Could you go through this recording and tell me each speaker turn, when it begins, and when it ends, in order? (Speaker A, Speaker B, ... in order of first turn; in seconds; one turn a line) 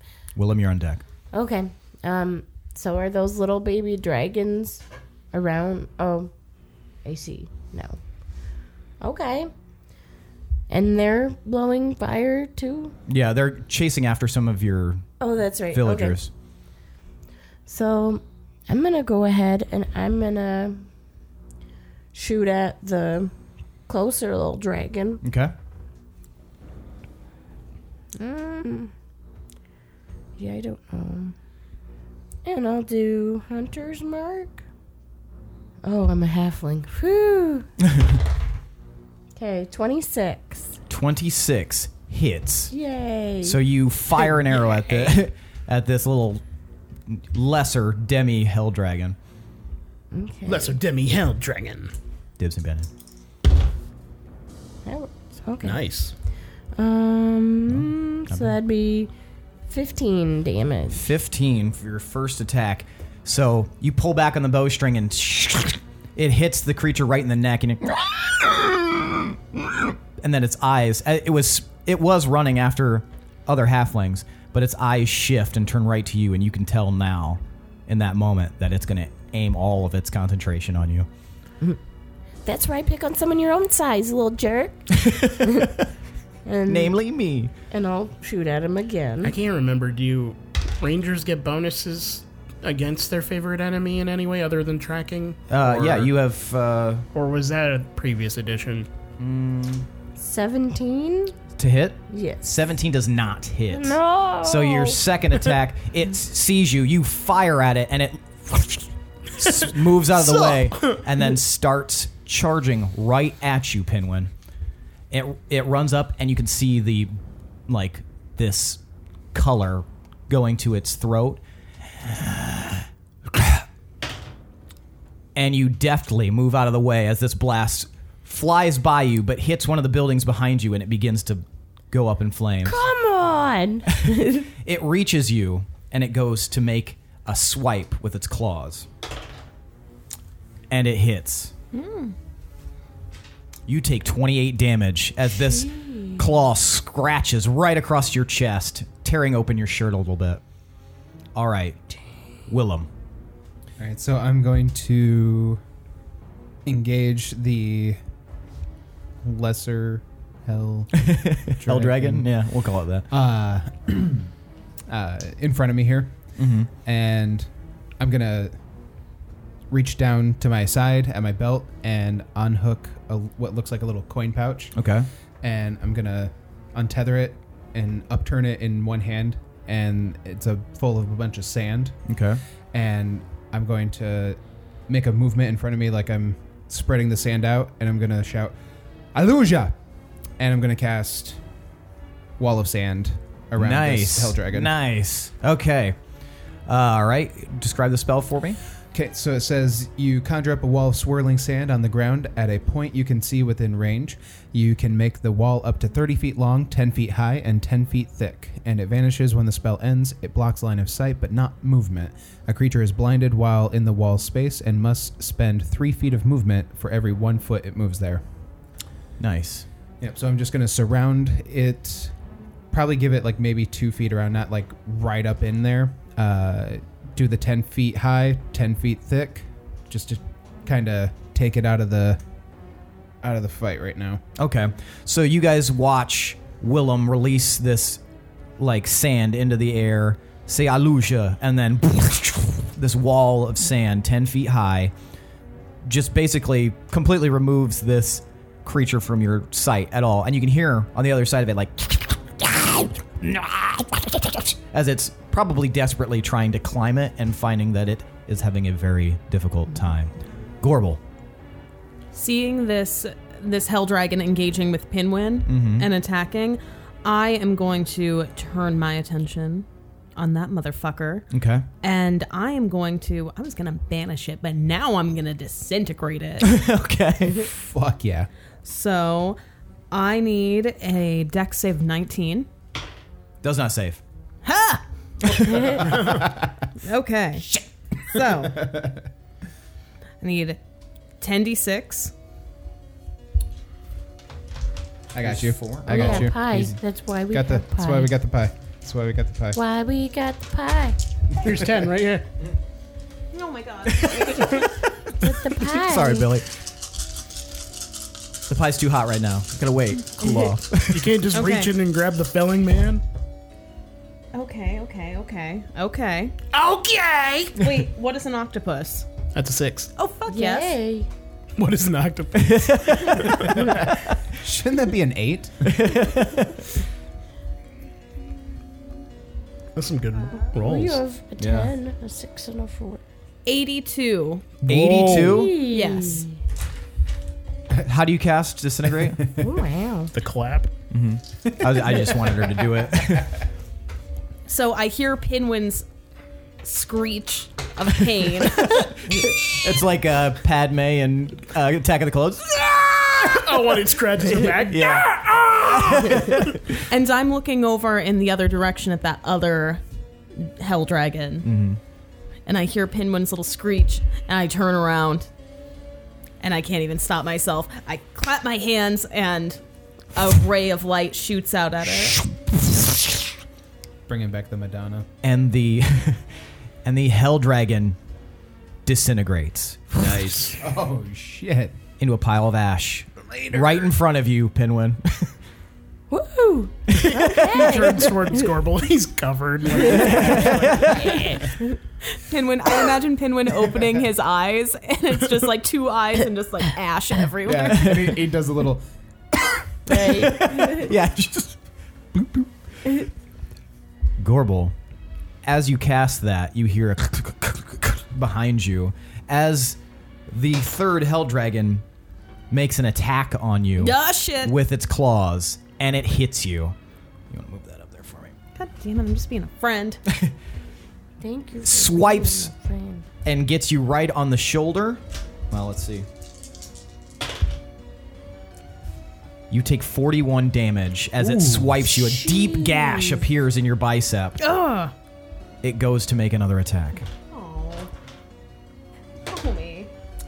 Speaker A: 0.3-1.0
Speaker B: 1.3-6.3
Speaker B: 7.0-8.0
Speaker B: 9.0-9.5
Speaker B: 10.7-12.9
Speaker A: 13.1-15.1
Speaker B: 15.2-16.2
Speaker A: 15.7-16.3
Speaker B: 17.7-20.9
Speaker B: 22.1-23.3
Speaker B: 23.9-25.2
Speaker A: 25.2-25.5
Speaker B: 28.2-28.9
Speaker B: 30.4-31.4
Speaker B: 32.5-34.6
Speaker B: 35.8-37.7
Speaker B: 39.4-40.8
Speaker A: 40.9-42.7
Speaker B: 42.7-43.6
Speaker A: 43.4-46.4
Speaker C: 44.5-45.2
Speaker A: 47.1-49.2
Speaker B: 50.1-50.8
Speaker C: 50.5-51.9
Speaker A: 52.4-52.9
Speaker B: 54.9-55.8
Speaker C: 55.6-56.1
Speaker B: 56.8-59.1
Speaker A: 57.7-58.5
Speaker B: 59.7-61.0
Speaker A: 60.9-81.1
Speaker B: 82.5-84.9
Speaker A: 84.9-85.8
Speaker B: 86.5-87.0
Speaker A: 86.7-87.5
Speaker B: 87.7-89.4
Speaker C: 89.2-96.1
Speaker A: 95.5-97.1
Speaker C: 97.1-98.9
Speaker A: 99.2-99.9
Speaker B: 100.2-101.3
Speaker A: 101.6-114.3
Speaker B: 102.1-102.5
Speaker B: 103.7-105.0
Speaker C: 110.1-111.1
Speaker A: 115.1-118.8
Speaker A: 119.3-121.4
Speaker A: 122.0-123.6
Speaker A: 125.3-132.8
Speaker B: 132.6-134.5
Speaker A: 134.1-138.9
Speaker A: 140.7-141.5
Speaker D: 141.7-142.2
Speaker A: 143.7-150.4
Speaker B: 145.6-146.2
Speaker A: 151.3-151.8
Speaker A: 152.5-152.9
Speaker E: 153.8-155.6
Speaker E: 156.7-158.0
Speaker E: 159.2-162.3
Speaker A: 161.0-163.1
Speaker E: 163.1-164.3
Speaker E: 164.9-166.2
Speaker A: 166.4-166.7
Speaker E: 166.8-168.6
Speaker E: 169.7-174.8
Speaker A: 174.8-175.1
Speaker E: 175.4-182.0
Speaker A: 182.1-182.4
Speaker E: 182.7-188.5
Speaker E: 189.1-189.8
Speaker E: 190.4-191.4
Speaker E: 192.4-194.8
Speaker A: 193.6-196.0
Speaker A: 196.7-198.6
Speaker E: 198.9-218.2
Speaker A: 219.2-219.7
Speaker E: 220.0-222.1
Speaker E: 222.7-232.2
Speaker E: 233.2-234.2
Speaker A: 234.4-238.0
Speaker A: 238.6-244.9
Speaker A: 245.8-261.0
Speaker D: 262.1-271.3
Speaker A: 265.5-265.9
Speaker A: 271.3-271.6
Speaker D: 271.8-276.6
Speaker A: 276.4-277.5
Speaker E: 277.5-278.3
Speaker D: 278.6-279.4
Speaker D: 279.9-282.5
Speaker A: 283.4-284.0
Speaker D: 284.4-285.9
Speaker E: 285.3-286.5
Speaker D: 286.8-287.5
Speaker D: 288.0-288.8
Speaker E: 288.3-289.0
Speaker D: 290.2-290.6
Speaker D: 291.2-292.1
Speaker E: 295.1-296.7
Speaker A: 295.2-296.8
Speaker B: 295.9-298.1
Speaker E: 297.3-299.6
Speaker B: 299.5-301.0
Speaker C: 301.4-302.3
Speaker D: 303.3-304.7
Speaker A: 303.9-306.5
Speaker B: 305.2-306.3
Speaker A: 308.5-311.2
Speaker C: 310.9-313.0
Speaker D: 311.3-311.7
Speaker D: 314.3-316.4
Speaker C: 316.5-317.6
Speaker D: 317.6-319.1
Speaker C: 319.4-319.9
Speaker D: 320.0-320.8
Speaker B: 320.3-321.1
Speaker C: 321.6-323.7
Speaker A: 322.4-324.0
Speaker E: 324.3-325.8
Speaker A: 325.6-326.7
Speaker C: 329.8-331.0
Speaker B: 330.6-333.0
Speaker A: 331.4-331.7
Speaker D: 333.5-334.5
Speaker C: 334.6-335.6
Speaker A: 334.6-335.5
Speaker B: 335.1-336.4
Speaker D: 335.6-336.3
Speaker A: 337.8-339.3
Speaker E: 339.1-339.4
Speaker B: 339.4-340.1
Speaker C: 340.1-340.7
Speaker A: 340.9-343.4
Speaker E: 341.4-343.3
Speaker D: 344.5-345.9
Speaker D: 346.6-349.1
Speaker A: 348.5-356.8
Speaker C: 353.4-356.6
Speaker D: 356.8-359.8
Speaker D: 360.4-361.5
Speaker A: 361.4-361.8
Speaker D: 362.5-365.3
Speaker D: 366.4-369.6
Speaker D: 370.1-372.2
Speaker E: 374.1-375.1
Speaker A: 375.2-376.3
Speaker A: 376.8-378.0
Speaker A: 378.9-380.4
Speaker C: 380.0-380.6
Speaker E: 380.6-381.8
Speaker A: 382.0-385.3
Speaker B: 386.1-388.4
Speaker A: 386.9-387.9
Speaker C: 387.4-391.2
Speaker B: 389.8-390.3
Speaker A: 389.9-391.5
Speaker B: 390.9-391.7
Speaker D: 392.1-398.1
Speaker E: 397.4-398.9
Speaker A: 397.6-398.2
Speaker A: 399.9-401.6
Speaker B: 399.9-400.8
Speaker A: 402.1-402.5
Speaker A: 404.2-404.7
Speaker A: 405.4-409.8
Speaker A: 410.3-411.8
Speaker A: 412.5-416.8
Speaker D: 413.8-414.6
Speaker A: 417.3-418.3
Speaker D: 418.6-420.0
Speaker B: 421.2-423.1
Speaker A: 421.6-422.5
Speaker A: 423.2-426.1
Speaker A: 429.5-434.4
Speaker B: 431.9-433.3
Speaker D: 434.4-434.9
Speaker A: 435.6-437.1
Speaker D: 437.2-437.9
Speaker D: 439.3-439.9